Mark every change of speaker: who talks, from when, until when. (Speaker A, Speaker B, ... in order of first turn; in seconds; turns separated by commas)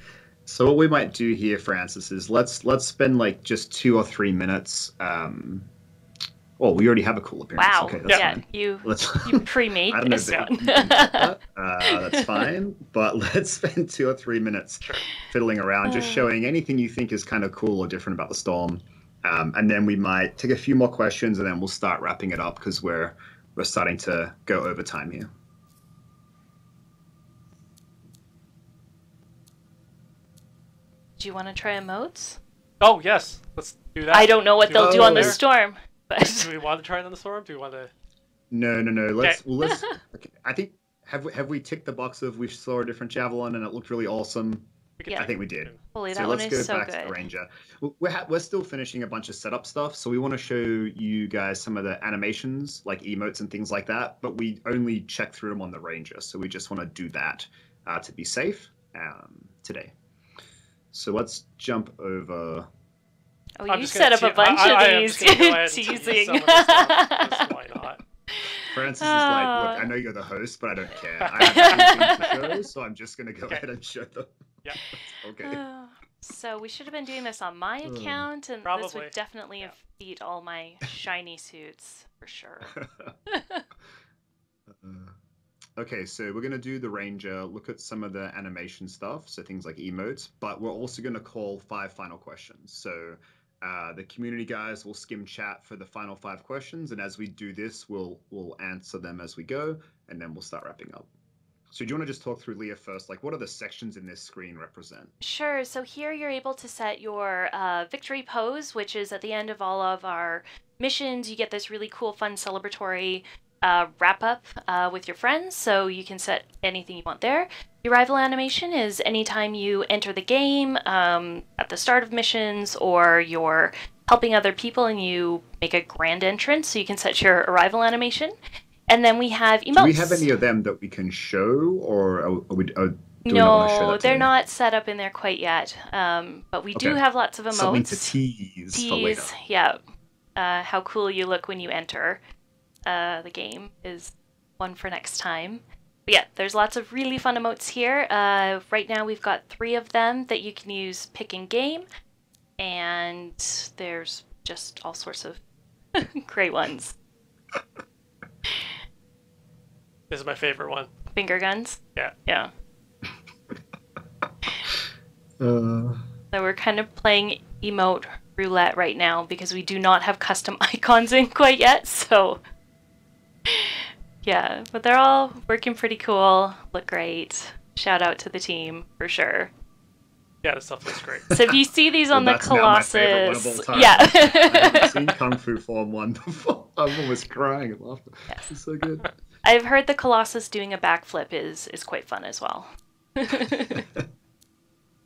Speaker A: 0.5-5.7, Speaker A: 6.6-25.3, Speaker B: 7.6-11.3, Speaker B: 11.9-12.4, Speaker B: 15.9-16.2, Speaker B: 31.2-32.4, Speaker C: 32.8-35.4, Speaker B: 34.1-36.5, Speaker A: 34.7-35.4, Speaker C: 36.3-37.9, Speaker A: 38.5-59.9, Speaker B: 39.6-40.0, Speaker C: 45.0-45.8, Speaker B: 45.9-47.2, Speaker A: 60.9-62.7, Speaker B: 63.6-67.5, Speaker C: 63.7-68.0, Speaker B: 68.4-69.9, Speaker A: 68.7-74.3, Speaker C: 71.2-72.3, Speaker B: 71.4-72.5, Speaker A: 75.1-75.6, Speaker B: 75.4-83.6, Speaker A: 77.9-78.3, Speaker C: 78.7-79.1, Speaker A: 82.8-83.1, Speaker A: 84.7-85.1, Speaker A: 85.8-101.1, Speaker A: 101.7-105.1, Speaker B: 105.2-128.3, Speaker B: 128.9-130.3, Speaker A: 129.7-134.3, Speaker B: 133.3-138.1, Speaker A: 137.5-139.3, Speaker B: 138.7-139.8, Speaker B: 140.4-142.2, Speaker B: 142.9-151.8, Speaker B: 152.6-155.4, Speaker B: 155.9-157.0, Speaker C: 160.1-160.9, Speaker B: 161.1-162.5, Speaker A: 165.4-166.0, Speaker B: 166.3-172.4, Speaker B: 173.5-179.5, Speaker C: 180.4-181.4, Speaker B: 181.3-184.9, Speaker A: 182.1-189.1, Speaker B: 189.4-193.9